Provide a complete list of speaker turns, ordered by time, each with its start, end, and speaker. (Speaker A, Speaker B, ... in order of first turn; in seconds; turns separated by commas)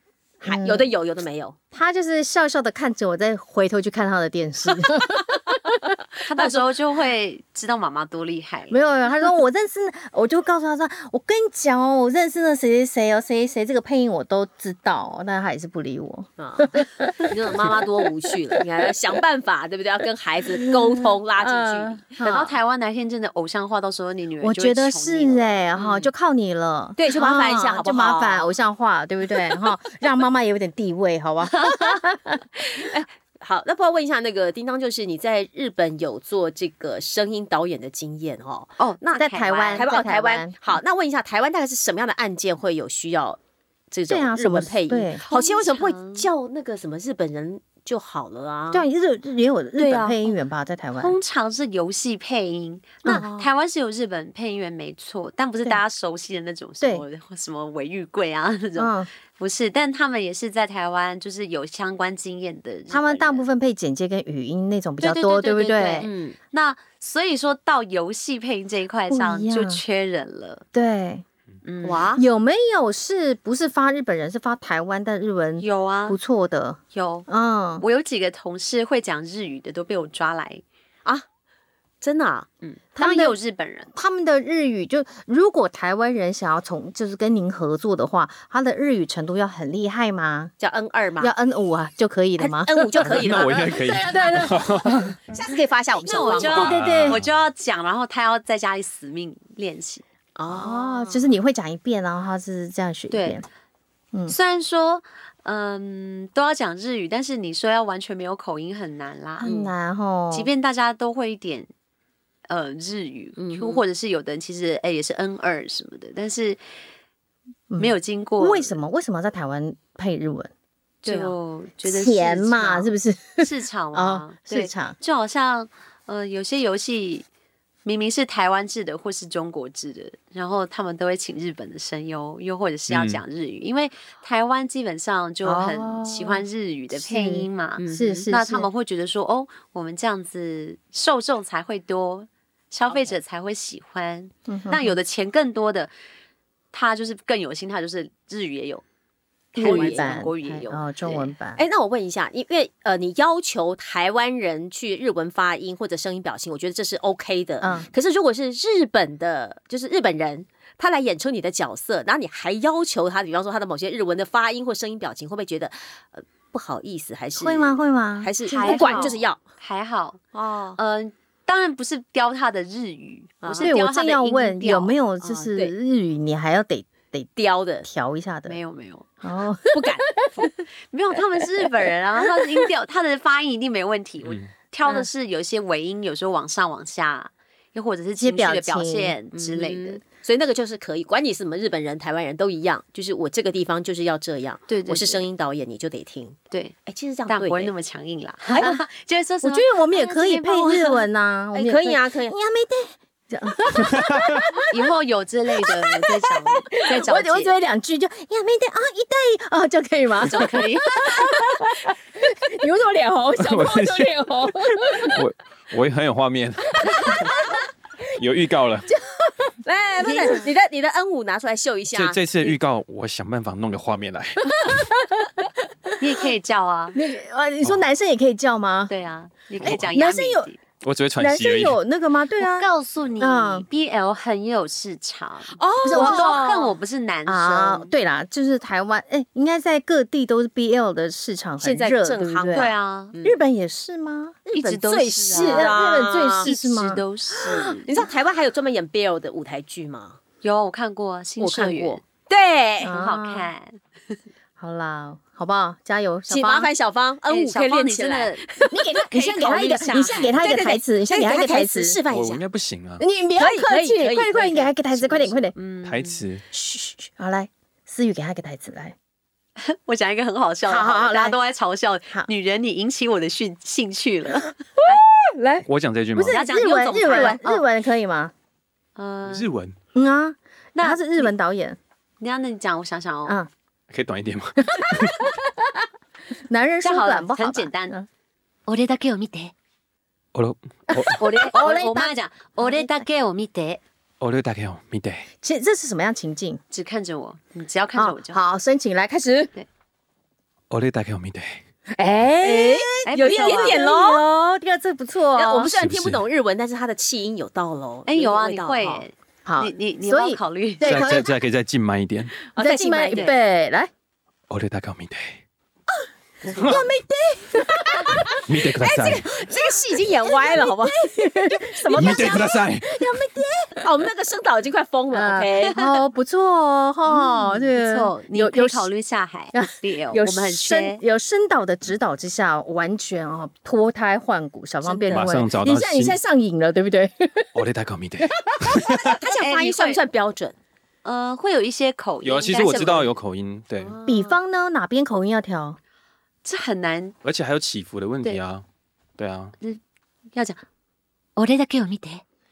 Speaker A: 0.4-1.6, Speaker B: 0.4-0.9, Speaker B: 1.7-5.9, Speaker A: 4.8-5.6, Speaker A: 6.2-6.7, Speaker C: 6.2-8.8, Speaker B: 8.7-17.9, Speaker A: 16.4-22.1, Speaker B: 20.6-22.6, Speaker C: 22.2-25.7, Speaker B: 24.4-32.8, Speaker A: 25.8-26.1, Speaker A: 27.0-28.6, Speaker A: 32.6-43.4, Speaker C: 38.8-39.9, Speaker B: 39.2-40.8, Speaker A: 43.9-48.9, Speaker B: 44.1-45.2, Speaker C: 45.2-46.3, Speaker B: 48.7-51.2, Speaker A: 49.8-50.3, Speaker C: 51.0-63.5, Speaker A: 53.0-53.5, Speaker B: 58.8-59.1, Speaker B: 62.9-66.1, Speaker C: 65.0-70.6, Speaker A: 66.0-66.4, Speaker B: 69.1-69.8, Speaker B: 70.7-71.2, Speaker C: 71.6-72.2, Speaker A: 71.8-72.2, Speaker B: 72.2-77.8, Speaker C: 75.6-76.2, Speaker C: 76.9-77.3, Speaker C: 77.8-80.6, Speaker A: 82.0-82.5, Speaker C: 82.6-83.9, Speaker B: 83.0-83.4, Speaker B: 83.9-90.5, Speaker A: 90.6-91.3, Speaker B: 91.2-95.2, Speaker A: 92.4-94.5, Speaker D: 93.0-95.2, Speaker A: 95.3-96.8, Speaker C: 96.0-100.0, Speaker B: 96.3-97.2, Speaker D: 96.5-97.3, Speaker A: 100.4-101.3, Speaker B: 100.5-103.5, Speaker C: 103.1-103.4, Speaker C: 104.3-109.5, Speaker B: 109.4-110.5, Speaker A: 109.4-109.7, Speaker C: 110.3-111.7, Speaker C: 112.5-116.6, Speaker A: 113.4-113.8, Speaker B: 117.7-120.5, Speaker C: 117.8-118.8, Speaker C: 121.0-127.3, Speaker A: 121.0-121.3, Speaker B: 121.8-125.0, Speaker C: 127.8-145.9, Speaker D: 132.9-133.2, Speaker B: 135.4-136.4, Speaker B: 136.9-138.7, Speaker A: 137.8-138.3, Speaker A: 142.9-143.2, Speaker B: 144.5-145.0, Speaker C: 146.7-148.8, Speaker C: 149.5-151.3, Speaker B: 149.6-151.6, Speaker A: 149.6-150.2, Speaker A: 151.6-169.4, Speaker B: 157.6-157.9, Speaker B: 167.4-169.2, Speaker C: 168.5-170.2, Speaker A: 170.3-170.8, Speaker C: 170.8-175.0, Speaker A: 173.4-173.7, Speaker B: 173.6-177.3, Speaker A: 175.2-175.7, Speaker A: 177.4-177.9, Speaker B: 177.8-178.6, Speaker C: 178.5-179.1, Speaker B: 179.2-180.3, Speaker A: 179.7-180.5, Speaker C: 180.9-190.0, Speaker D: 184.2-184.5, Speaker B: 188.2-189.2, Speaker A: 189.3-197.7, Speaker C: 194.7-195.3, Speaker C: 197.3-201.0, Speaker B: 198.6-198.8, Speaker B: 199.4-204.8, Speaker A: 201.5-202.4, Speaker D: 203.8-204.4, Speaker C: 204.7-207.5, Speaker B: 205.6-215.2, Speaker C: 210.2-211.2, Speaker D: 213.4-217.4, Speaker B: 216.8-217.6, Speaker D: 218.1-218.9, Speaker B: 218.9-219.5, Speaker A: 219.7-222.6, Speaker C: 220.0-220.5, Speaker D: 221.9-224.8, Speaker B: 224.6-225.3, Speaker C: 226.0-227.0, Speaker B: 226.9-228.9, Speaker C: 228.9-230.6, Speaker B: 229.6-230.5, Speaker D: 230.8-231.8, Speaker B: 231.2-232.7, Speaker C: 232.4-237.9, Speaker B: 233.2-233.7, Speaker A: 235.6-236.8, Speaker B: 235.8-236.4, Speaker B: 237.3-242.7, Speaker A: 241.6-243.4, Speaker C: 242.5-243.1, Speaker B: 243.2-244.4, Speaker A: 244.5-246.5, Speaker C: 244.5-245.9, Speaker B: 245.3-247.7, Speaker C: 246.4-247.9, Speaker A: 247.4-250.2, Speaker C: 250.4-252.0, Speaker A: 251.4-253.0, Speaker B: 252.8-253.5, Speaker C: 252.9-254.2, Speaker B: 254.6-256.7, Speaker A: 256.3-262.4, Speaker C: 257.3-260.5, Speaker B: 258.7-262.0, Speaker D: 262.1-263.1, Speaker B: 263.0-265.5, Speaker A: 263.4-265.4, Speaker C: 265.6-266.3, Speaker D: 265.9-266.4, Speaker B: 266.5-268.9, Speaker C: 269.6-274.5, Speaker B: 270.7-271.4, Speaker B: 274.8-278.3, Speaker D: 275.7-276.3, Speaker A: 276.3-277.4, Speaker C: 276.3-277.6, Speaker C: 279.0-279.5, Speaker D: 279.3-279.8, Speaker B: 279.9-281.8, Speaker C: 280.8-281.3, Speaker C: 282.2-283.4, Speaker D: 283.9-285.3, Speaker B: 284.6-285.8, Speaker B: 286.4-288.1, Speaker C: 286.8-288.0, Speaker C: 288.7-289.5, Speaker D: 290.3-291.2, Speaker B: 290.9-293.0, Speaker C: 291.1-293.8, Speaker D: 294.2-295.3, Speaker B: 295.4-296.6, Speaker C: 296.7-298.4, Speaker B: 298.0-299.5, Speaker D: 300.7-301.6, Speaker B: 301.9-305.7, Speaker A: 302.4-304.3, Speaker C: 303.1-303.8, Speaker A: 305.3-309.0, Speaker D: 305.7-306.2, Speaker C: 308.1-311.1, Speaker B: 309.4-311.3, Speaker D: 310.8-312.4, Speaker A: 312.5-313.3, Speaker B: 312.6-313.9, Speaker D: 314.5-315.4, Speaker A: 316.4-316.9, Speaker D: 316.6-316.9, Speaker B: 316.6-318.4, Speaker A: 317.7-322.5, Speaker D: 318.5-319.3, Speaker B: 320.2-323.8, Speaker D: 321.9-323.1, Speaker A: 323.8-325.8, Speaker B: 325.1-328.9, Speaker C: 327.1-331.0, Speaker B: 329.5-337.5, Speaker A: 334.8-335.3, Speaker D: 335.1-336.2, Speaker D: 337.5-339.2, Speaker B: 338.2-339.0, Speaker A: 338.9-340.6, Speaker C: 339.4-340.0, Speaker C: 341.1-343.1, Speaker D: 342.2-343.9, Speaker A: 342.6-343.0, Speaker A: 343.8-344.4, Speaker B: 344.1-345.8, Speaker C: 346.4-347.1, Speaker D: 347.2-348.6, Speaker D: 349.2-349.5, Speaker C: 350.3-350.6, Speaker C: 351.4-352.2